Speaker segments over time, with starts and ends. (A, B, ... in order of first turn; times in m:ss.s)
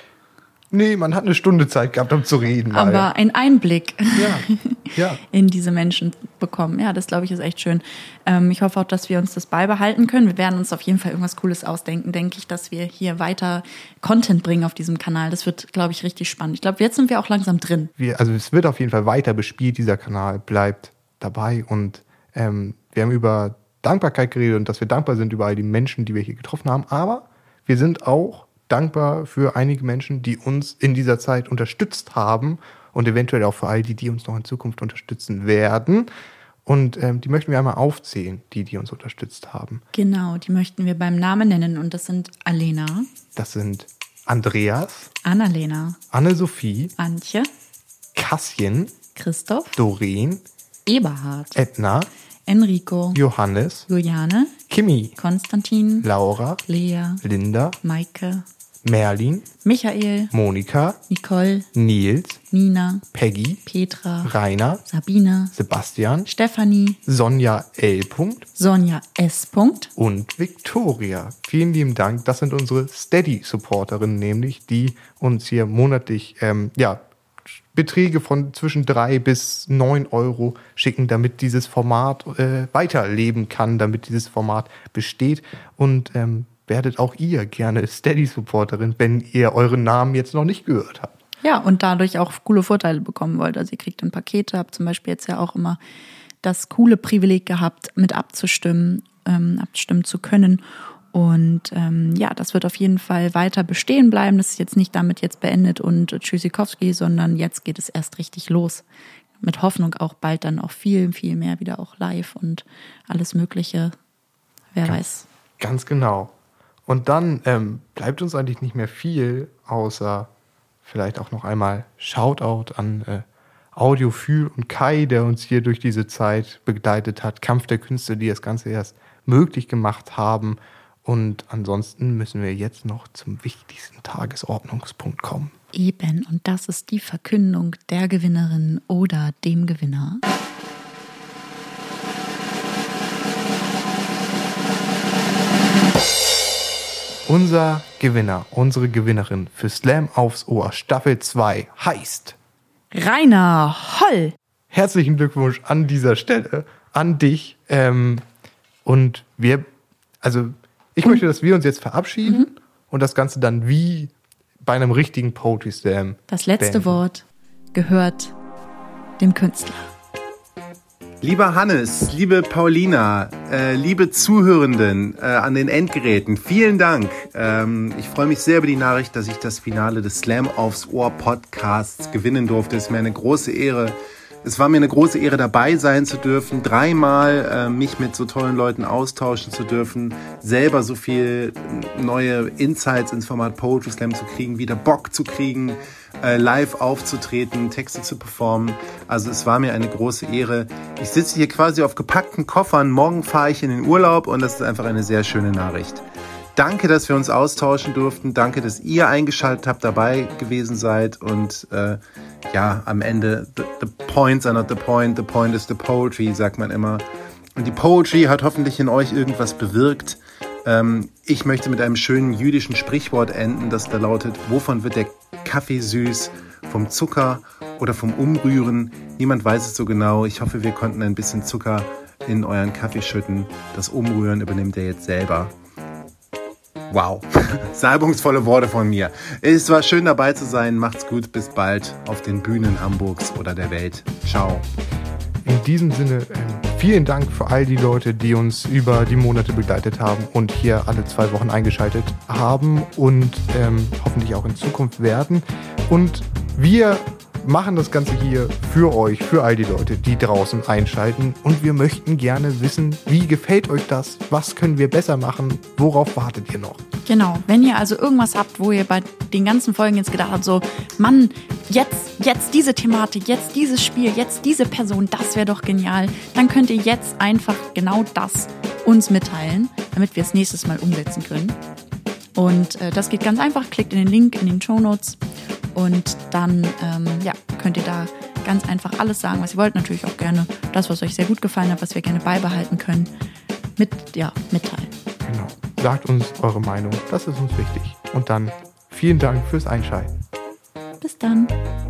0:00.7-0:03.1 A
0:02.7-0:17.9 B
0:04.2-0:05.2 A
0:18.0-0:36.1 A
0:36.6-0:39.8 A
0:39.9-0:43.1 B
0:43.4-0:45.1 A
0:45.2-0:46.0 B
0:46.1-0:46.9 A
0:47.0-0:47.5 B
0:48.1-0:48.9 A
0:49.1-0:49.8 B
0:49.8-0:50.4 A
0:50.8-0:51.6 B
0:51.5-0:52.1 A
0:52.5-0:53.2 B
0:53.1-0:53.9 A
0:53.9-0:54.5 B
0:54.7-0:55.2 A
0:55.2-0:56.1 B
0:56.0-0:56.6 A
0:56.6-0:57.2 B
0:57.2-0:57.8 A
0:57.8-0:58.4 B
0:58.8-0:59.5 A
0:59.6-1:00.3 B
1:00.3-1:01.0 A
1:01.1-1:01.6 B
1:01.7-1:02.4 A
1:02.5-1:03.0 B
1:03.1-1:03.6 A
1:03.6-1:04.3 B
1:04.2-1:04.8 A
1:04.8-1:05.5 B
1:05.5-1:06.3 A
1:06.3-1:07.0 B
1:07.0-1:08.4 A
1:08.6-1:09.9 B
1:10.0-1:17.0 A
1:17.6-1:31.1 A
1:31.4-1:35.8 B
1:36.4-1:48.8 B
1:49.4-1:53.9 B
1:54.7-1:55.2 B
1:55.6-1:56.3 A
1:56.9-2:00.3 A
2:00.8-2:03.2 A
2:03.7-2:15.5 A
2:15.7-2:20.2 B
2:27.3-2:32.4 A
2:32.9-2:34.3 B
2:34.7-2:38.2 A
2:38.8-2:39.6 A
2:40.2-2:44.1 A
2:44.6-2:47.0 A
2:46.3-2:48.3 B
2:49.2-2:49.9 B
2:51.2-3:26.0 C
3:26.6-3:37.0 C
3:37.6-3:55.5 C
3:56.9-4:04.6 C
4:05.4-4:26.8 A
4:27.0-4:41.6 B
4:42.4-4:45.2 B
4:45.7-4:53.1 B
4:53.8-4:54.9 B
4:55.2-5:00.1 A
5:01.0-5:01.5 B